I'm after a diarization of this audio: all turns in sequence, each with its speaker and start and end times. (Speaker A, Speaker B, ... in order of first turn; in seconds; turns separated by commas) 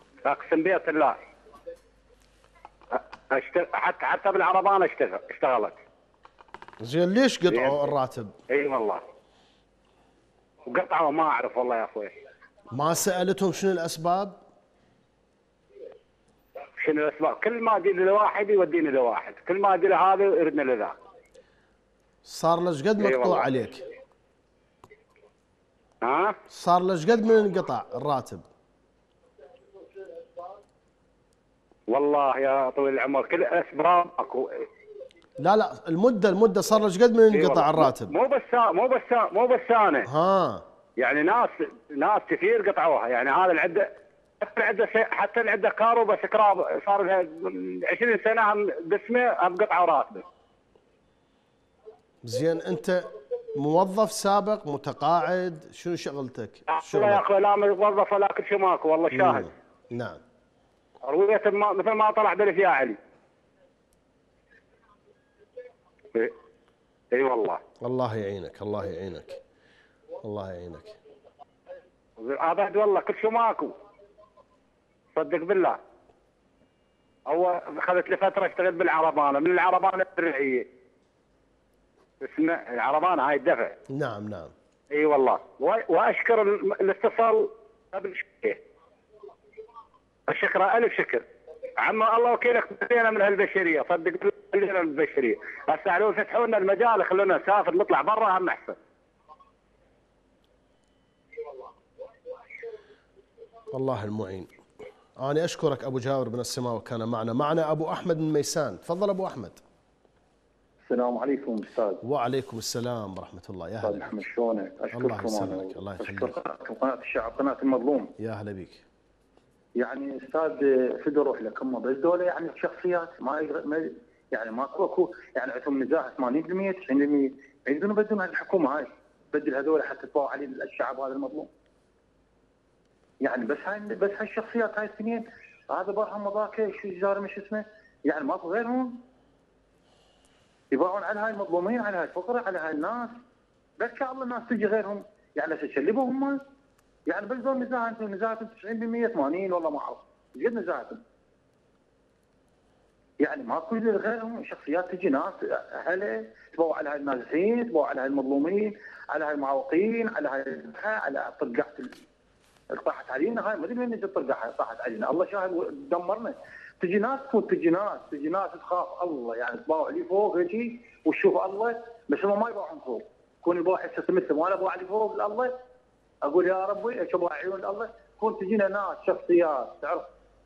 Speaker A: 0.2-1.2, Speaker A: 3.0-5.8, Speaker B: 6.8-8.3, Speaker A: 7.5-7.8, Speaker A: 8.5-9.0, Speaker A: 10.7-12.1, Speaker B: 12.7-14.4, Speaker A: 16.8-20.9, Speaker B: 22.2-23.8, Speaker A: 23.0-23.5, Speaker A: 26.0-26.4, Speaker B: 26.5-28.4, Speaker A: 31.9-34.5, Speaker B: 35.4-38.1, Speaker A: 37.3-40.1, Speaker B: 40.0-40.6, Speaker A: 41.0-43.9, Speaker A: 44.4-50.2, Speaker B: 52.2-57.2, Speaker A: 56.7-59.5, Speaker B: 59.1-60.2, Speaker A: 61.0-63.0, Speaker A: 67.1-67.6, Speaker B: 67.8-69.4, Speaker B: 70.2-71.0, Speaker A: 72.2-73.7, Speaker A: 75.2-75.8, Speaker A: 77.3-80.7, Speaker A: 82.2-83.8, Speaker B: 83.9-84.5, Speaker A: 84.9-88.6, Speaker A: 90.3-91.2, Speaker A: 91.8-98.8, Speaker B: 103.7-104.5, Speaker B: 105.2-109.6, Speaker C: 110.9-112.0, Speaker B: 112.0-114.3, Speaker C: 113.8-118.1, Speaker B: 114.9-116.4, Speaker B: 118.2-118.8, Speaker C: 119.8-131.5, Speaker C: 133.2-139.0, Speaker C: 140.7-143.1, Speaker C: 143.8-146.4, Speaker C: 147.1-151.0, Speaker C: 153.2-162.0, Speaker C: 162.7-175.5, Speaker C: 176.2-180.1